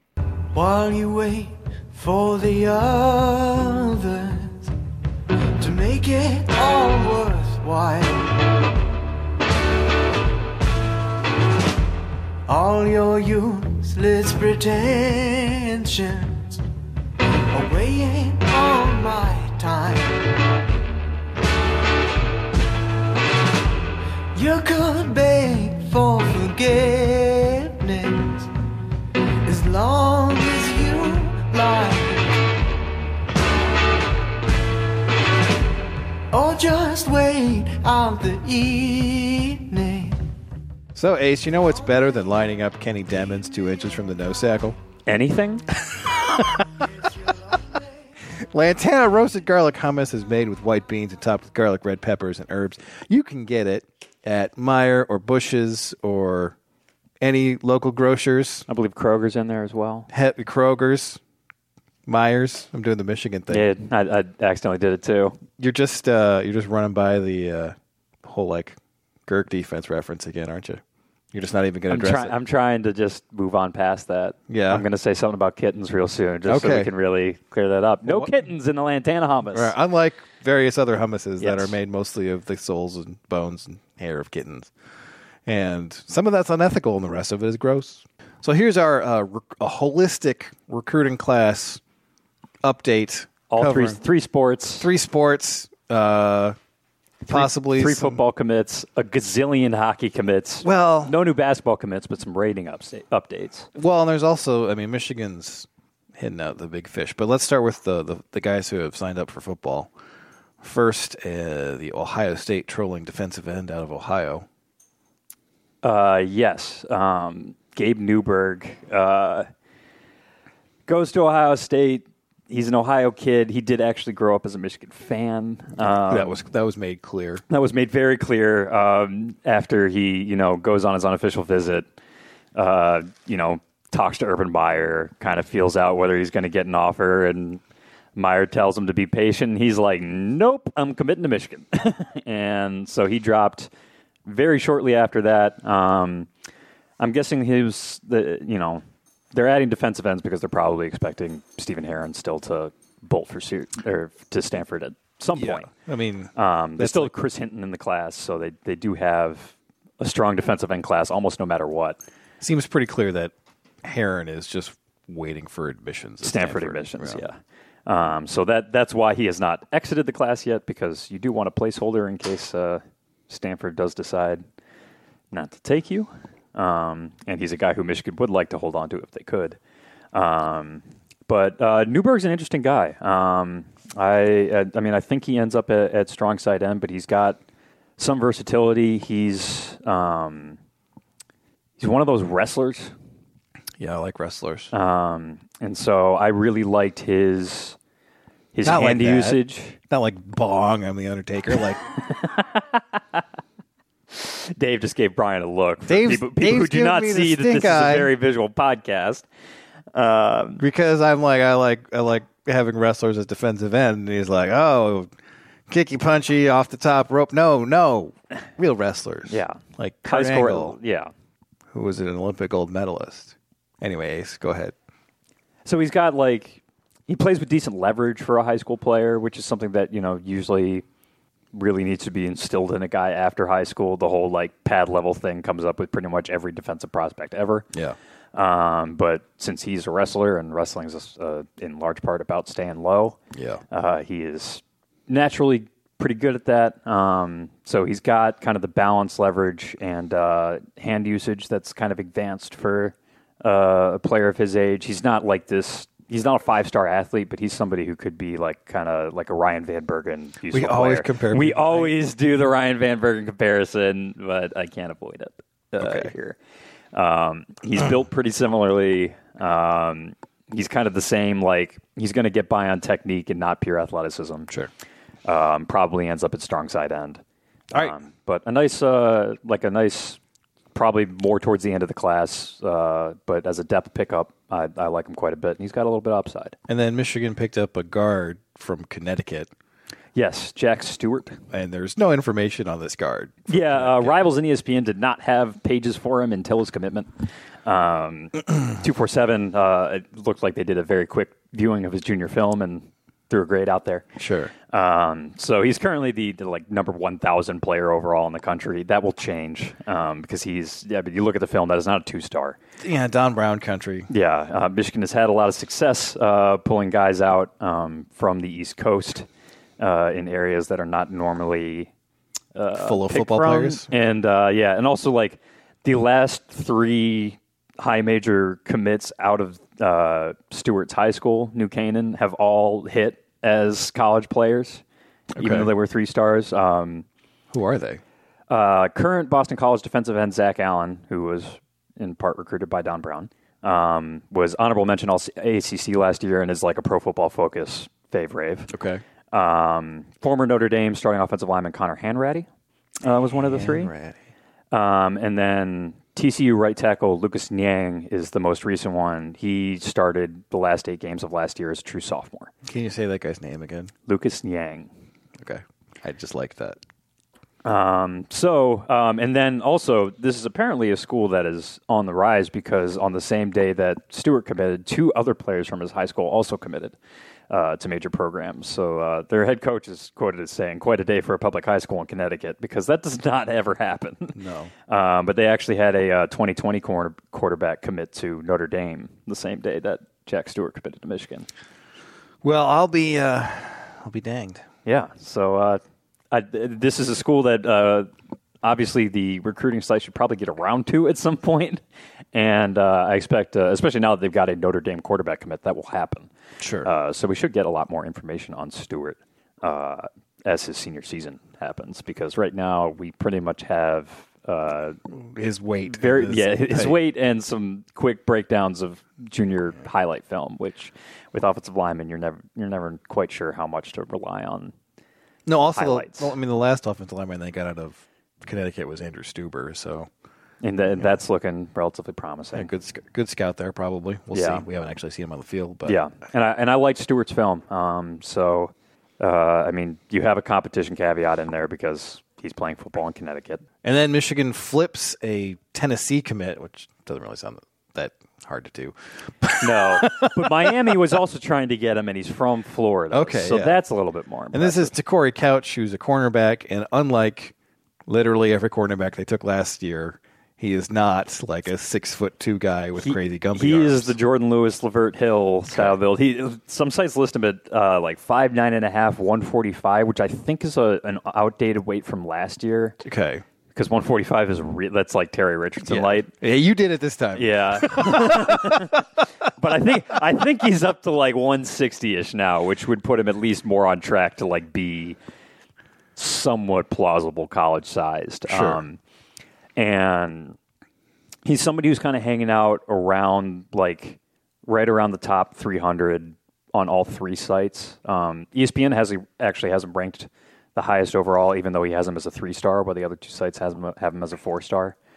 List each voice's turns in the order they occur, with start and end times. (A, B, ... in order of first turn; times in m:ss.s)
0:00.5-0:04.7 A
0:05.6-0:08.4 A
0:12.5-0:16.6 A
0:17.5-0:20.2 A
0:24.3-0:28.5 A
0:29.4-0:32.3 A
0:36.3-0:40.2 A
0:40.9-0:44.8 B
0:45.0-0:45.6 C
0:47.3-0:47.5 A
0:48.5-0:56.6 B
0:57.2-0:58.6 B
0:58.7-1:00.1 C
1:00.1-1:01.2 B
1:02.1-1:03.7 B
1:03.5-1:05.4 C
1:05.6-1:12.4 B
1:11.9-1:19.7 C
1:14.5-1:14.8 B
1:16.5-1:16.9 B
1:18.0-1:18.3 B
1:19.5-1:24.7 B
1:21.4-1:21.7 C
1:25.4-1:31.8 B
1:32.6-1:34.0 B
1:33.5-1:34.9 C
1:34.8-1:36.6 B
1:37.2-1:43.7 C
1:37.2-1:38.2 B
1:40.6-1:41.2 B
1:43.7-1:49.9 B
1:50.6-1:54.4 B
1:55.8-1:59.5 C
2:00.9-2:06.4 C
2:05.8-2:07.4 B
2:07.5-2:11.9 C
2:12.5-2:17.6 C
2:18.2-2:23.7 C
2:24.2-2:26.3 C
2:27.0-2:35.7 C
2:35.3-2:37.1 B
2:36.4-2:42.0 C
2:42.4-2:47.2 B
2:46.2-2:54.4 C
2:55.3-2:59.6 C
3:00.1-3:07.4 C
3:08.0-3:10.6 C
3:11.8-3:12.9 C
3:13.8-3:14.7 B
3:14.7-3:17.8 C
3:18.5-3:19.8 C
3:18.6-3:21.8 B
3:22.2-3:23.2 C
3:24.1-3:29.2 C
3:25.9-3:28.1 B
3:29.9-3:30.6 C
3:30.6-3:35.1 B
3:35.7-3:40.8 B
3:39.3-3:41.1 C
3:41.7-3:44.7 B
3:45.6-3:50.8 C
3:51.5-3:57.6 C
3:58.3-4:03.2 C
4:03.3-4:03.6 B
4:03.7-4:26.4 C
4:20.5-4:22.0 B
4:25.8-4:26.1 B
4:26.9-4:34.5 C
4:35.2-4:37.2 C
4:37.7-4:40.2 C
4:40.7-4:46.6 C
4:46.7-4:49.5 B
4:50.1-4:51.4 C
4:51.5-4:54.3 B
4:53.5-5:04.1 C
5:04.2-5:04.5 B
5:04.7-5:12.6 C
5:12.8-5:14.1 B
5:14.1-5:19.3 C
5:19.8-5:21.9 C
5:22.5-5:34.8 C
5:22.8-5:23.9 B
5:35.3-5:35.7 B
5:35.4-5:37.0 C
5:37.5-5:38.0 B
5:38.5-5:48.7 C
5:48.7-5:49.0 B
5:49.3-5:52.5 C
5:53.0-5:53.9 C
5:53.4-5:54.2 B
5:54.7-6:02.5 C
6:02.6-6:03.9 B
6:04.1-6:04.9 C
6:05.4-6:06.8 B
6:07.6-6:17.0 C
6:17.5-6:24.4 C
6:24.3-6:24.7 B
6:24.9-6:31.5 C
6:32.4-6:34.6 B
6:34.8-6:38.1 C
6:38.6-6:41.8 C
6:42.3-6:46.3 C
6:46.6-6:46.9 B
6:46.8-6:55.0 C
6:55.1-6:57.0 B
6:55.9-7:04.7 C
7:05.4-7:10.1 B
7:05.7-7:06.3 C
7:10.6-7:12.7 C
7:12.5-7:16.0 B
7:14.3-7:14.6 C
7:15.8-7:23.6 C
7:23.8-7:30.7 B
7:29.6-7:34.9 C
7:33.1-7:33.8 B
7:34.5-7:37.5 B
7:38.1-7:44.2 B
7:43.0-7:53.0 C
7:45.7-7:46.0 B
7:53.0-7:53.4 B
7:53.7-7:56.3 C
7:55.8-7:59.0 B
7:57.3-7:59.0 C
7:59.6-8:05.2 C
8:06.2-8:09.0 C
8:08.5-8:08.8 B
8:09.8-8:10.6 C
8:11.4-8:25.0 C